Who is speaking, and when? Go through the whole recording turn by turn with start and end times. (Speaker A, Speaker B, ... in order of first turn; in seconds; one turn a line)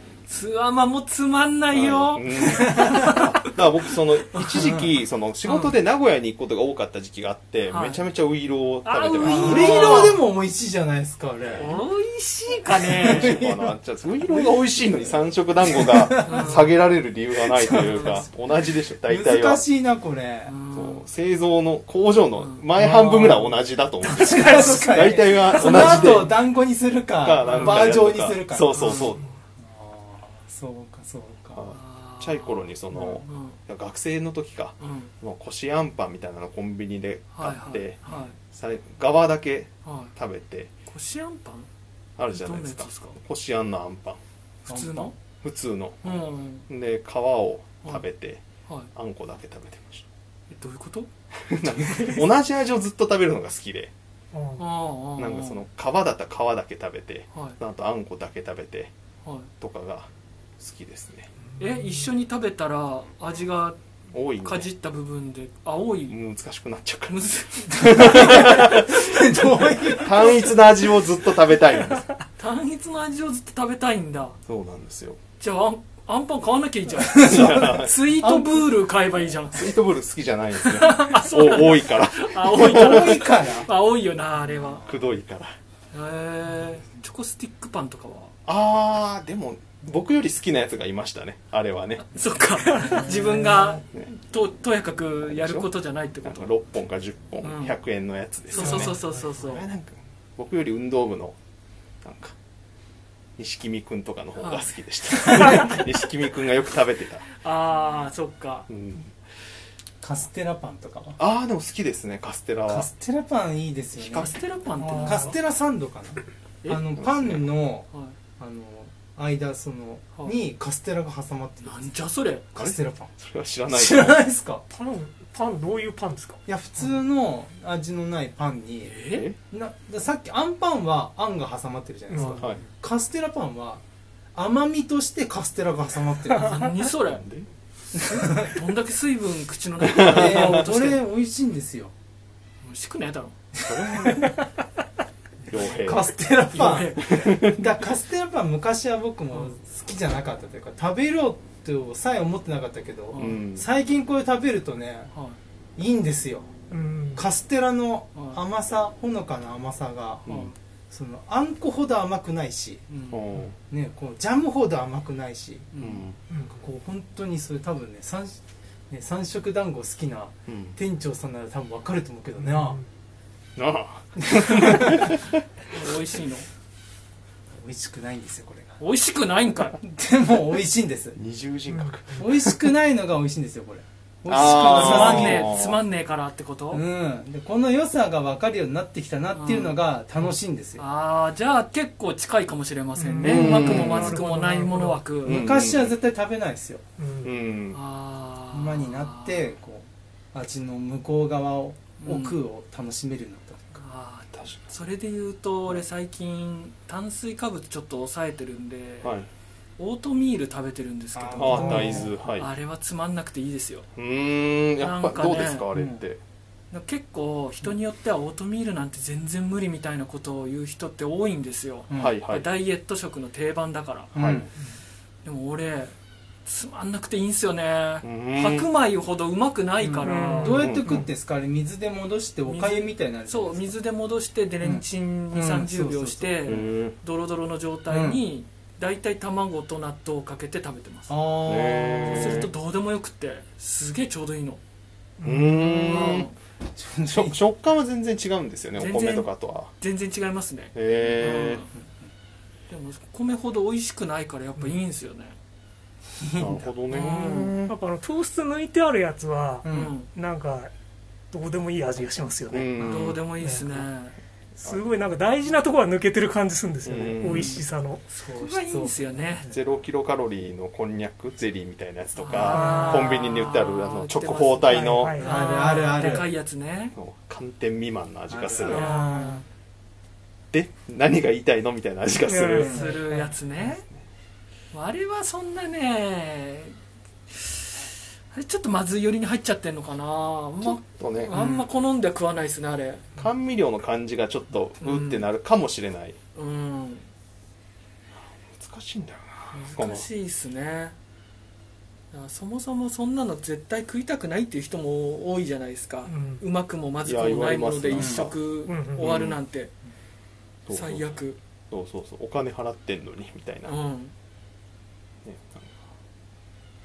Speaker A: 0.3-3.5
Speaker B: 1.7-10.2
Speaker C: 2.5-3.2
Speaker A: 4.3-4.8
Speaker A: 5.5-5.7
Speaker A: 7.7-8.0
Speaker A: 8.8-10.2
Speaker C: 9.2-11.8
Speaker A: 11.6-13.4
Speaker C: 12.7-16.6
Speaker B: 13.0-19.6
Speaker A: 16.2-16.7
Speaker C: 17.5-18.2
Speaker A: 17.7-18.2
Speaker C: 19.1-20.5
Speaker A: 20.5-21.1
Speaker B: 20.8-26.4
Speaker A: 22.4-23.5
Speaker C: 22.8-23.5
Speaker C: 24.1-31.6
Speaker A: 24.3-24.8
Speaker A: 25.5-26.2
Speaker B: 27.2-29.3
Speaker A: 27.4-27.9
Speaker A: 28.7-29.2
Speaker B: 31.6-40.7
Speaker A: 31.7-33.6
Speaker A: 34.8-35.1
Speaker A: 37.3-38.4
Speaker A: 39.9-40.1
Speaker A: 40.9-41.7
Speaker B: 42.2-44.2
Speaker A: 42.3-43.2
Speaker C: 44.7-45.1
Speaker A: 44.7-45.1
Speaker B: 45.4-48.4
Speaker A: 46.0-46.7
Speaker B: 48.9-50.0
Speaker A: 50.5-51.1
Speaker B: 51.5-53.9
Speaker A: 51.6-52.2
Speaker D: 54.3-54.6
Speaker A: 54.6-55.6
Speaker B: 55.2-58.9
Speaker B: 59.6-61.3
Speaker A: 61.6-63.8
Speaker B: 64.1-64.7
Speaker A: 64.4-66.2
Speaker B: 66.1-72.1
Speaker A: 67.1-68.8
Speaker C: 67.7-70.5
Speaker A: 72.4-74.4
Speaker B: 74.5-75.2
Speaker A: 75.4-79.7
Speaker C: 77.0-78.7
Speaker B: 77.2-78.0
Speaker B: 79.5-83.2
Speaker A: 80.6-84.9
Speaker C: 82.5-83.7
Speaker C: 84.6-85.0
Speaker B: 84.8-85.5
Speaker A: 85.9-88.3
Speaker B: 88.5-92.2
Speaker A: 92.0-96.5
Speaker D: 92.7-93.1
Speaker C: 92.9-93.8
Speaker B: 95.2-95.7
Speaker B: 96.2-101.3
Speaker A: 97.4-97.8
Speaker A: 98.5-99.7
Speaker C: 98.5-99.2
Speaker B: 102.0-102.3
Speaker B: 103.4-107.3
Speaker A: 104.4-105.8
Speaker A: 107.4-108.7
Speaker B: 108.7-109.2
Speaker C: 110.0-111.2
Speaker B: 111.2-112.9
Speaker C: 112.7-114.3
Speaker A: 114.0-115.3
Speaker D: 114.8-115.3
Speaker C: 115.0-121.9
Speaker B: 117.0-117.4
Speaker A: 121.7-122.5
Speaker C: 122.5-123.1
Speaker B: 122.6-124.2
Speaker C: 123.7-124.6
Speaker D: 124.7-126.4
Speaker C: 126.5-133.8
Speaker A: 128.9-129.3
Speaker D: 132.1-132.4
Speaker B: 132.2-132.6
Speaker C: 134.3-136.8
Speaker A: 136.4-137.2
Speaker B: 137.1-137.5
Speaker C: 137.9-138.5
Speaker A: 138.1-141.0
Speaker B: 139.8-140.7
Speaker C: 140.0-141.9
Speaker A: 142.6-143.4
Speaker C: 143.6-144.3
Speaker B: 143.6-144.4
Speaker B: 145.5-146.1
Speaker C: 145.6-155.1
Speaker A: 146.5-147.1
Speaker B: 147.0-147.7
Speaker A: 153.1-153.4
Speaker B: 153.2-153.7
Speaker A: 155.1-155.4
Speaker C: 155.8-156.5
Speaker D: 156.7-157.2
Speaker C: 157.2-160.3
Speaker B: 160.3-160.5
Speaker A: 160.3-160.5
Speaker C: 160.9-162.9
Speaker A: 162.9-163.2
Speaker B: 163.1-163.6
Speaker C: 163.7-165.8
Speaker A: 165.8-166.0
Speaker B: 165.8-166.2
Speaker C: 166.5-172.8
Speaker B: 170.5-170.8
Speaker D: 172.5-172.8
Speaker B: 173.6-175.4
Speaker C: 174.2-175.2
Speaker A: 175.7-176.5
Speaker C: 177.6-178.8
Speaker A: 178.8-179.8
Speaker C: 179.8-181.2
Speaker B: 181.2-182.6
Speaker D: 181.7-182.2
Speaker C: 182.2-185.6
Speaker B: 184.3-185.8
Speaker A: 184.4-186.8
Speaker C: 186.7-190.8
Speaker A: 189.3-189.8
Speaker A: 190.8-195.4
Speaker D: 193.0-195.0
Speaker B: 193.2-194.2
Speaker B: 195.2-195.9
Speaker C: 195.2-196.8
Speaker D: 197.0-197.3
Speaker B: 197.2-197.8
Speaker A: 197.7-199.5
Speaker C: 198.5-203.8
Speaker A: 202.0-202.4
Speaker A: 203.8-209.1
Speaker A: 209.8-213.9
Speaker C: 211.2-212.1
Speaker B: 211.4-212.5
Speaker B: 214.0-216.2
Speaker A: 214.8-215.7
Speaker C: 215.7-216.0
Speaker A: 216.7-224.1
Speaker C: 221.9-222.2
Speaker B: 221.9-222.5
Speaker C: 224.1-224.5
Speaker B: 224.2-224.5
Speaker A: 225.2-225.9
Speaker A: 226.4-230.6
Speaker B: 228.0-228.7
Speaker C: 229.8-233.8
Speaker D: 230.0-230.7
Speaker B: 230.5-231.1
Speaker A: 232.5-241.1
Speaker C: 234.6-236.7
Speaker B: 236.5-236.9
Speaker C: 237.9-238.2
Speaker C: 241.1-242.5
Speaker B: 241.4-242.5
Speaker A: 242.1-244.6
Speaker D: 245.2-245.6
Speaker B: 245.2-246.3
Speaker C: 245.7-246.2
Speaker A: 245.8-246.3
Speaker C: 246.8-247.4
Speaker B: 247.1-249.7
Speaker A: 248.8-251.7
Speaker B: 250.8-251.6
Speaker A: 252.7-255.4
Speaker C: 256.2-256.6
Speaker B: 256.4-257.7
Speaker A: 256.9-257.6
Speaker D: 257.7-260.7
Speaker C: 259.6-259.9
Speaker A: 259.7-260.1
Speaker D: 261.3-262.8
Speaker B: 262.5-263.2
Speaker A: 262.8-264.1
Speaker D: 264.6-268.0
Speaker B: 266.9-267.6
Speaker A: 268.1-269.5
Speaker C: 268.2-269.5
Speaker B: 269.5-275.2
Speaker A: 272.2-276.9
Speaker D: 272.5-273.0
Speaker C: 272.6-272.9
Speaker D: 274.7-275.4
Speaker C: 275.1-276.3
Speaker B: 277.0-278.9
Speaker C: 278.3-279.4
Speaker A: 278.6-279.3
Speaker D: 278.7-279.3
Speaker B: 280.5-282.8
Speaker D: 282.3-283.0
Speaker C: 282.6-283.0
Speaker A: 282.6-283.8
Speaker A: 284.7-286.8
Speaker A: 287.3-293.1
Speaker B: 290.6-291.4
Speaker C: 291.3-291.7
Speaker B: 293.2-296.2
Speaker A: 294.8-295.2
Speaker A: 296.4-297.1
Speaker B: 298.5-300.1
Speaker A: 299.5-300.9
Speaker A: 302.1-309.7
Speaker D: 306.1-306.4
Speaker B: 307.1-308.4
Speaker C: 307.9-308.3
Speaker D: 308.7-309.1
Speaker B: 309.0-309.4
Speaker B: 310.7-311.1
Speaker A: 310.7-311.4
Speaker B: 311.7-313.7
Speaker A: 313.7-314.1
Speaker B: 315.2-315.8